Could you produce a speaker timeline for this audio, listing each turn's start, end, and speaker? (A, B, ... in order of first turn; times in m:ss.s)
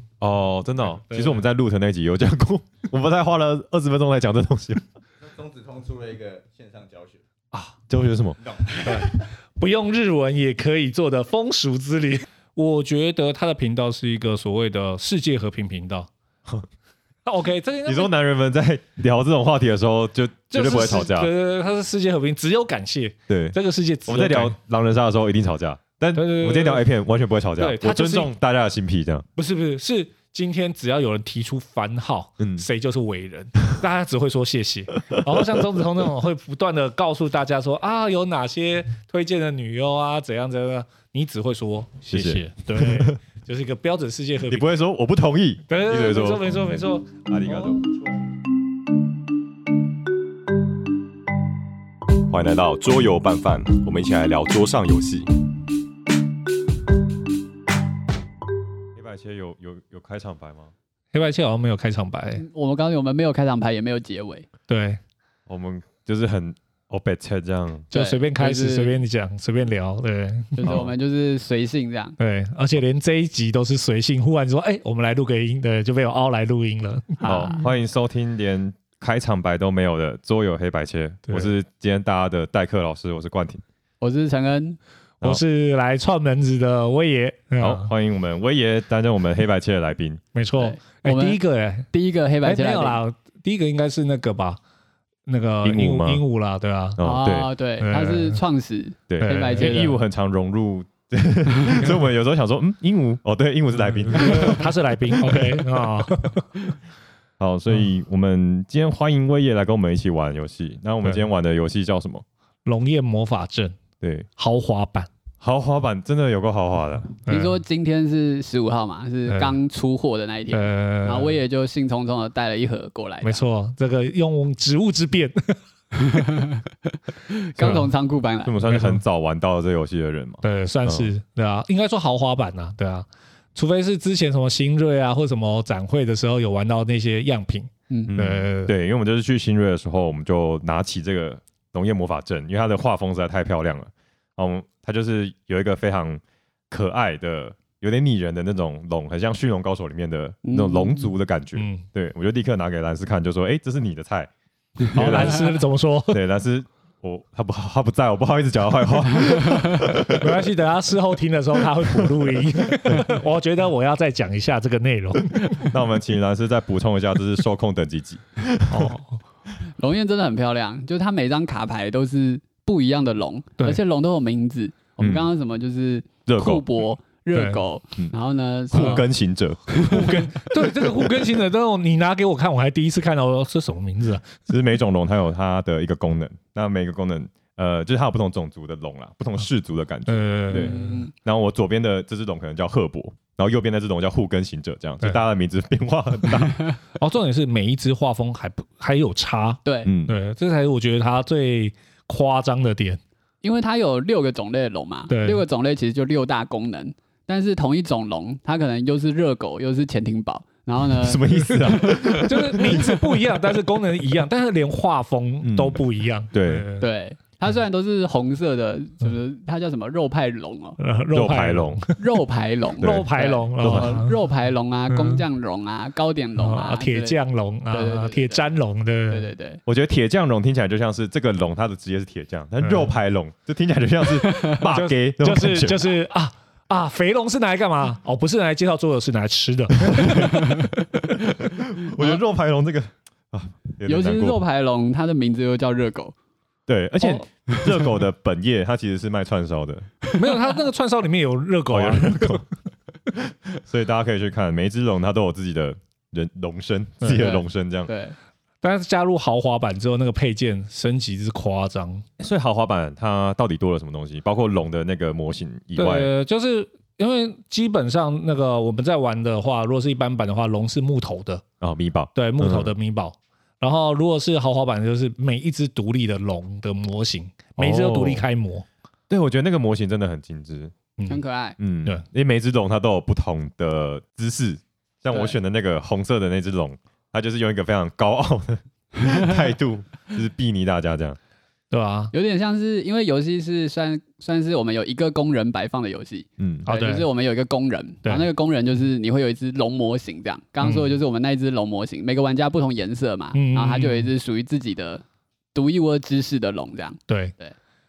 0:00.2-0:04.9 A
0:01.1-0:01.4 B
0:05.2-0:07.2 C
0:07.5-0:08.4 A
0:08.8-0:16.6 B
0:17.2-0:18.1 B
0:17.9-0:21.3 A
0:20.5-0:24.6 B
0:23.3-0:23.6 A
0:24.1-0:29.3 A
0:26.2-0:26.9 B
0:27.6-0:28.3 B
0:29.4-0:44.6 B
0:32.4-0:32.7 A
0:42.1-0:43.2 A
0:44.5-0:46.5 A
0:45.7-0:48.0 B
0:47.3-0:47.8 A
0:52.3-0:55.3 A
0:59.0-1:00.7 A
1:01.1-1:02.4 B
1:02.4-1:04.5 D
1:04.7-1:05.0 B
1:05.5-1:07.9 A
1:07.9-1:10.8 B
1:07.9-1:09.0 D
1:10.6-1:12.2 D
1:10.7-1:10.9 A
1:12.2-1:17.5 B
1:17.2-1:17.6 D
1:17.2-1:23.6 A
1:24.0-1:24.8 D
1:25.2-1:27.9 B
1:27.6-1:30.2 A
1:30.3-1:31.9 B
1:30.6-1:31.4 D
1:31.9-1:33.0 D
1:32.4-1:34.6 B
1:35.3-1:37.0 B
1:35.6-1:36.2 A
1:37.0-1:37.5 A
1:37.0-1:40.0 D
1:37.8-1:38.4 B
1:39.1-1:45.6 A
1:39.2-1:39.7 B
1:44.1-1:46.5 B
1:47.4-1:52.2 A
1:52.7-1:53.8 B
1:54.0-1:54.3 A
1:54.4-1:55.1 B
1:55.4-1:57.2 A
1:57.3-1:57.6 B
1:57.3-2:03.4 D
1:59.3-1:59.5 B
2:00.5-2:01.4 B
2:03.2-2:05.6 B
2:07.3-2:08.6 D
2:07.6-2:07.9 B
2:08.4-2:11.1 A
2:08.6-2:09.0 B
2:10.4-2:18.7 B
2:18.1-2:34.3 A
2:30.4-2:31.1 D
2:31.6-2:31.8 B
2:34.9-2:35.4 A
2:34.9-2:36.2 B
2:36.1-2:40.3 A
2:40.2-2:45.7 B
2:42.8-2:43.2 A
2:45.6-2:48.9 A
2:48.7-2:49.2 B
2:49.8-2:59.1 D
2:55.0-2:55.2 A
2:56.3-2:56.6 A
2:57.4-2:57.6 B
2:58.7-2:59.0 B
2:58.7-3:00.3 A
2:59.8-3:04.4 B
3:00.8-3:01.1 A
3:04.5-3:16.8 A
3:10.1-3:11.0 B
3:10.5-3:11.1 D
3:17.0-3:23.0 B
3:19.6-3:19.9 D
3:19.8-3:20.1 A
3:23.4-3:32.0 D
3:25.1-3:25.4 B
3:31.0-3:33.2 A
3:32.2-3:36.9 B
3:35.4-3:36.7 A
3:36.8-3:40.8 D
3:40.8-3:42.0 B
3:41.1-3:41.8 A
3:42.0-3:47.2 D
3:42.8-3:43.0 A
3:42.8-3:44.2 B
3:43.6-3:44.0 A
3:44.9-3:45.2 B
3:46.4-3:49.3 B
3:47.7-3:48.4 D
3:49.1-3:49.6 D
3:49.7-3:55.8 A
3:52.6-3:52.9 B
3:54.6-4:00.6 B
3:59.9-4:00.4 A
4:01.3-4:04.4 A
4:03.9-4:06.1 D
4:06.7-4:09.9 A
4:10.2-4:12.5 B
4:11.7-4:12.4 A
4:13.2-4:17.9 A
4:17.0-4:18.2 D
4:18.6-4:22.0 B
4:22.2-4:26.1 A
4:25.8-4:31.4 B
4:31.6-4:32.8 A
4:32.2-4:38.7 B
4:37.6-4:38.2 A
4:39.1-4:40.7 A
4:41.1-4:41.6 D
4:41.6-4:51.2 A
4:51.7-4:52.1 B
4:52.1-5:05.0 D
4:56.4-4:56.7 A
4:56.7-4:57.1 B
5:00.6-5:00.9 B
5:03.3-5:04.1 B
5:05.6-5:07.5 D
5:07.1-5:07.3 B